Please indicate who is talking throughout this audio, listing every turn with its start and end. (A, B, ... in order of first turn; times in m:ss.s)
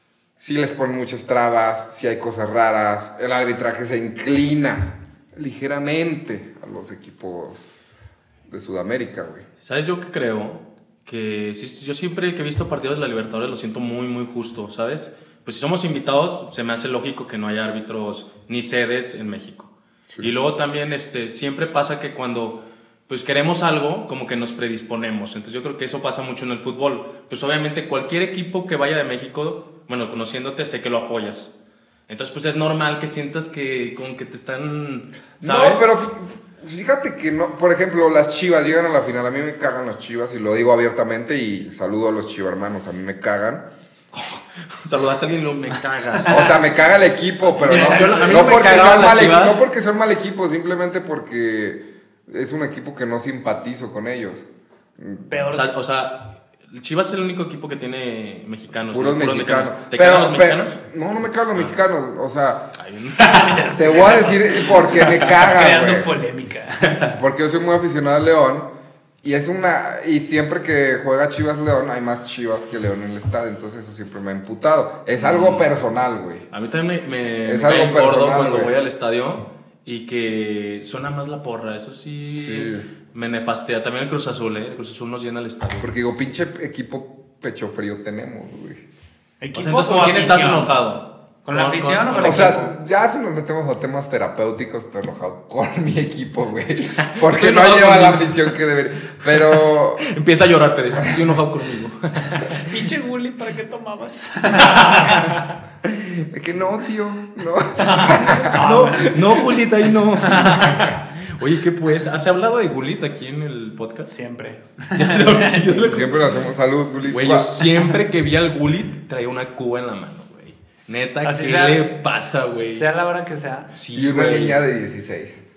0:00.4-0:07.8 A
0:08.5-0:09.5 A
0:09.6-0:31.5 B
0:32.1-0:35.9 B
0:35.4-0:43.7 A
0:44.1-0:46.6 B
0:46.3-0:54.4 A
0:47.4-0:49.7 B
0:47.6-0:49.0 C
0:55.0-0:55.4 A
0:55.3-0:55.7 C
0:55.5-1:00.8 B
0:58.9-1:02.7 A
1:02.8-1:04.4 B
1:03.2-1:07.1 C
1:03.8-1:06.2 A
1:05.0-1:05.4 B
1:07.1-1:08.7 A
1:09.2-1:16.5 A
1:15.2-1:15.7 B
1:16.5-1:25.9 B
1:17.4-1:18.7 A
1:22.4-1:22.9 A
1:25.8-1:28.8 A
1:29.4-1:30.8 C
1:29.5-1:32.6 B
1:31.5-1:32.7 C
1:32.2-1:40.1 A
1:37.1-1:38.5 B
1:39.3-1:42.8 B
1:42.6-1:45.4 C
1:44.5-1:46.2 B
1:46.3-1:48.6 A
1:47.8-1:49.1 C
1:48.5-1:54.2 B
1:49.1-1:49.4 A
1:50.3-1:50.8 C
1:54.1-1:56.0 C
1:54.9-1:56.4 B
1:55.8-1:57.6 A
1:57.1-2:02.9 B
2:01.2-2:02.0 C
2:02.7-2:03.7 C
2:03.8-2:04.6 B
2:03.9-2:05.4 A